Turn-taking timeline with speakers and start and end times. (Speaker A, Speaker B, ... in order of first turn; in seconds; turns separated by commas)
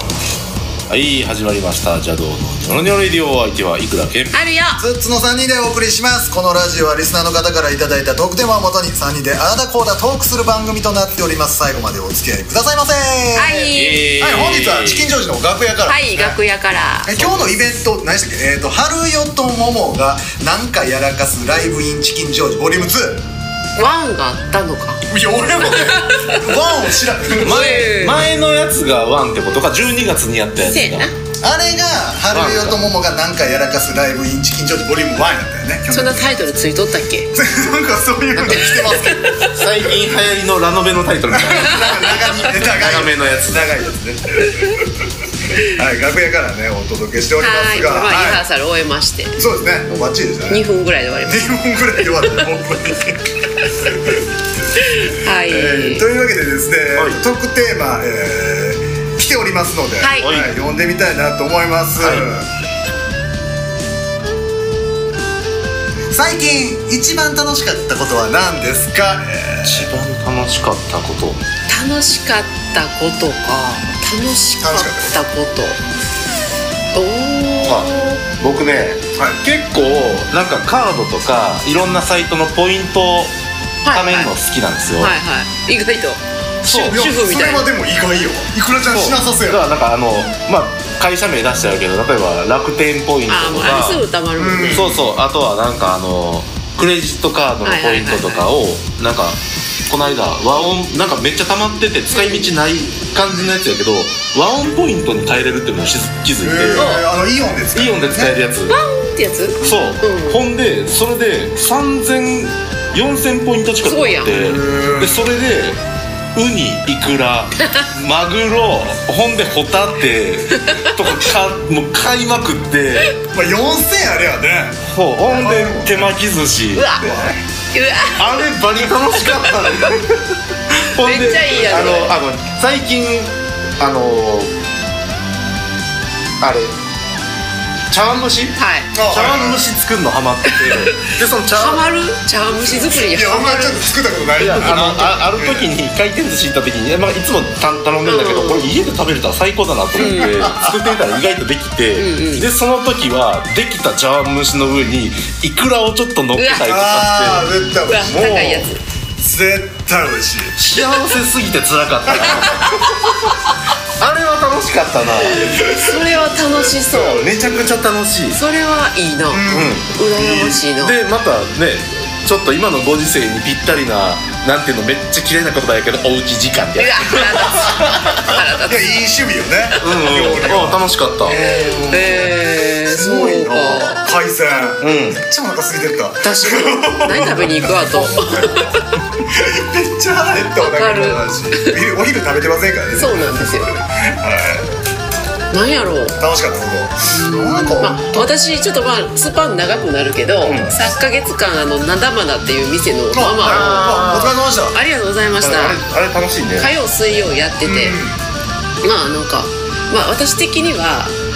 Speaker A: 0.9-4.3, Speaker B: 4.3-4.8, Speaker C: 4.8-16.4, Speaker B: 13.3-14.1, Speaker A: 13.7-15.1, Speaker B: 15.9-17.1, Speaker C: 17.1-23.2, Speaker B: 23.8-25.0, Speaker C: 25.1-28.1, Speaker B: 25.7-26.4, Speaker B: 27.4-28.3, Speaker A: 27.4-31.1, Speaker B: 30.6-31.1, Speaker C: 31.4-36.4, Speaker A: 32.3-32.8, Speaker B: 35.9-37.3, Speaker C: 37.3-39.5, Speaker B: 38.4-39.5, Speaker A: 39.5-43.7, Speaker C: 41.3-44.9, Speaker C: 45.6-48.5, Speaker B: 47.4-49.4, Speaker C: 49.4-50.6, Speaker B: 50.5-51.5, Speaker C: 51.2-54.2, Speaker B: 54.8-56.1, Speaker C: 55.5-62.5, Speaker B: 60.0-60.4, Speaker A: 60.2-60.5, Speaker A: 62.0-62.3, Speaker C: 66.1-69.9, Speaker A: 69.7-71.4, Speaker B: 71.7-75.8, Speaker C: 74.6-75.2, Speaker B: 76.9-78.2, Speaker A: 77.6-83.3, Speaker B: 83.8-84.3, Speaker A: 83.9-85.2, Speaker B: 85.0-86.2, Speaker A: 86.6-87.0, Speaker C: 86.7-89.6, Speaker B: 86.8-87.7, Speaker A: 88.8-94.0, Speaker B: 93.3-94.9, Speaker C: 94.4-95.1, Speaker A: 94.7-106.9, Speaker B: 97.6-98.5, Speaker B: 102.1-102.5, Speaker C: 106.4-108.3, Speaker B: 106.8-107.1, Speaker A: 107.7-108.8, Speaker B: 108.7-110.4, Speaker A: 109.6-115.8, Speaker B: 113.8-114.4, Speaker C: 114.3-115.3, Speaker A: 116.3-123.2, Speaker B: 117.6-117.9, Speaker B: 120.6-120.9, Speaker C: 123.2-126.1, Speaker A: 124.9-126.9, Speaker B: 126.7-127.1, Speaker C: 127.0-127.3, Speaker B: 127.7-128.5, Speaker A: 128.2-134.5, Speaker B: 131.0-132.2, Speaker A: 136.4-136.8, Speaker A: 137.9-141.8, Speaker B: 138.6-138.9, Speaker C: 138.9-139.7, Speaker B: 140.7-143.9, Speaker C: 142.8-145.7, Speaker A: 144.4-158.7, Speaker B: 148.0-148.7, Speaker B: 150.0-150.5, Speaker C: 150.0-150.8, Speaker B: 151.9-152.5, Speaker B: 156.3-156.7, Speaker C: 156.7-158.1, Speaker B: 157.8-158.8, Speaker C: 159.2-160.6, Speaker A: 160.6-163.3, Speaker C: 162.2-162.6, Speaker A: 164.0-165.5, Speaker B: 165.2-167.5, Speaker C: 165.5-166.8, Speaker A: 166.9-168.4, Speaker B: 168.3-171.0, Speaker C: 169.3-170.6, Speaker A: 169.5-169.9, Speaker A: 170.6-178.4, Speaker B: 176.8-178.9, Speaker C: 178.7-182.3, Speaker A: 179.8-181.8, Speaker B: 181.3-184.0, Speaker C: 182.9-188.5, Speaker A: 184.8-185.2, Speaker B: 186.2-188.8, Speaker C: 189.1-194.7, Speaker B: 190.6-191.8, Speaker B: 192.9-193.7, Speaker B: 195.5-196.2, Speaker C: 196.2-198.3, Speaker B: 197.1-203.9, Speaker A: 200.4-200.7, Speaker C: 203.1-204.8, Speaker A: 203.4-204.4, Speaker B: 204.7-205.8, Speaker A: 205.4-206.8, Speaker B: 206.6-208.0, Speaker C: 207.6-208.2, Speaker B: 208.8-211.1